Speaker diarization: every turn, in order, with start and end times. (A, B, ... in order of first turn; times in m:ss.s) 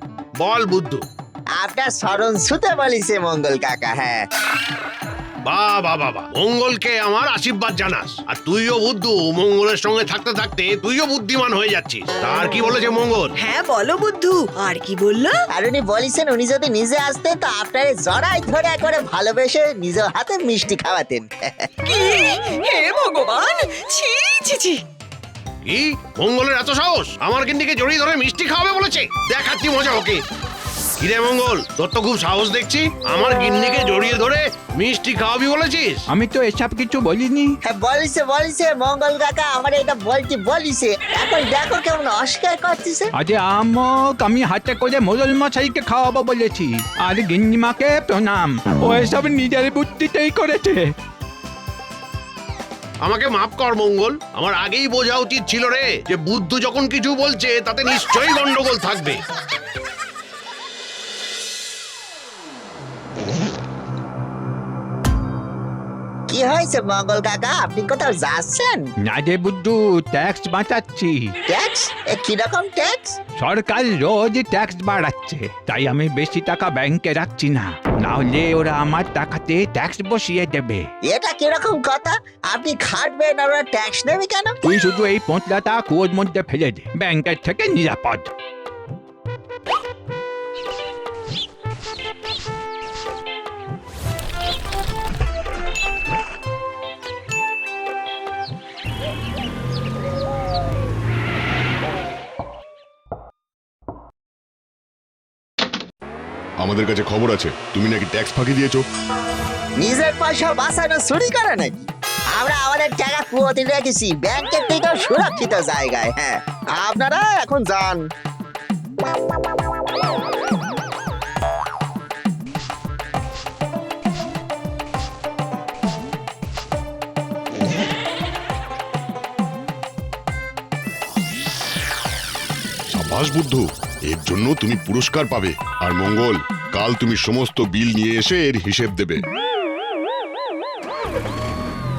0:00.4-0:01.0 A
0:01.6-0:04.3 B
0:05.4-0:13.4 A
0:13.4-0:15.4 C
0:15.5-0:21.7 B
0:21.9-0:24.8 C
0:25.7-0:30.2 A
0:31.0-0:36.0 A
0:36.1-0:37.6 D
0:37.6-0:43.1 B
0:43.2-0:50.9 D
0:53.0-0:59.2 A
1:06.3-1:08.9 B
1:09.0-1:11.4 D
1:11.5-1:13.2 B
1:13.4-1:20.9 D
1:21.0-1:24.6 B
1:24.6-1:28.3 D
1:46.6-1:48.8 E
1:49.8-1:58.1 B
2:12.9-2:19.2 E